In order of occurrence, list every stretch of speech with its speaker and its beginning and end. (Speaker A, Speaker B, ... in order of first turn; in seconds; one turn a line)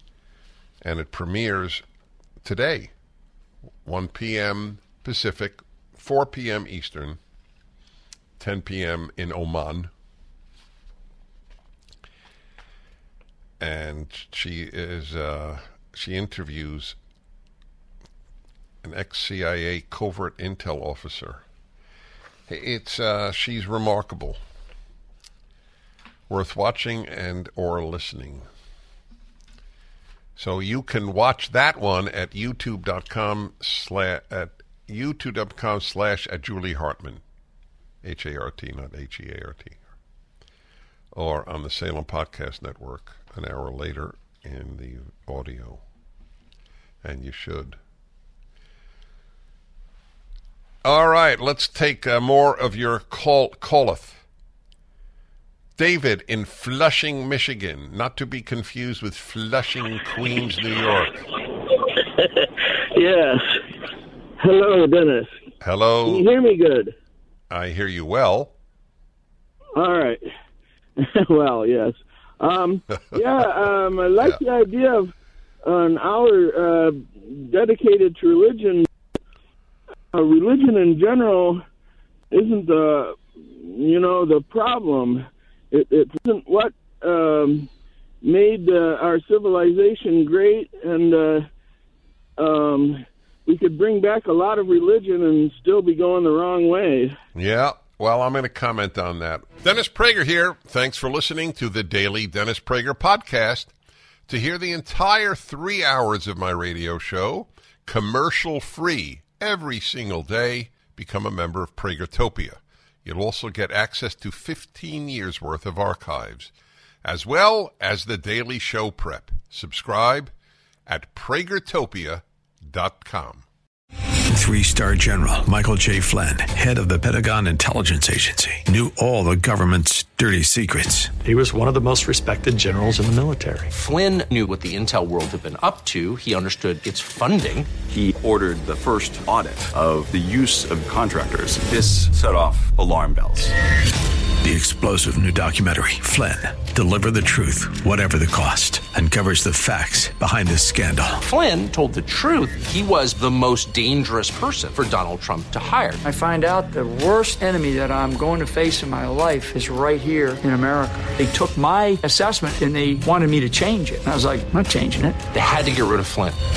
Speaker A: 0.8-1.8
Speaker A: 2.4-2.9
Speaker A: 3.9-7.2
Speaker A: 8.4-9.9
Speaker A: 13.6-17.0
Speaker A: 18.8-21.4
Speaker A: 22.5-24.4
Speaker A: 26.3-28.5
Speaker A: 30.4-37.2
Speaker A: 38.0-39.8
Speaker A: 41.1-45.8
Speaker A: 47.0-47.8
Speaker A: 50.8-54.2
Speaker A: 55.8-61.2
Speaker B: 62.4-63.6
Speaker B: 64.4-65.4
Speaker A: 65.6-66.3
Speaker B: 66.0-67.0
Speaker A: 67.5-68.5
Speaker B: 69.8-70.2
Speaker B: 71.0-75.1
Speaker B: 75.6-78.9
Speaker B: 80.1-81.6
Speaker B: 82.3-87.7
Speaker B: 88.2-91.5
Speaker B: 92.4-97.2
Speaker A: 97.4-103.7
Speaker A: 104.3-116.5
Speaker A: 117.0-120.3
Speaker A: 120.9-123.5
Speaker C: 124.3-131.2
Speaker D: 131.2-133.7
Speaker E: 133.7-137.7
Speaker F: 137.9-143.5
Speaker C: 144.4-151.2
Speaker E: 151.2-156.0
Speaker G: 156.0-165.2
Speaker E: 165.3-166.4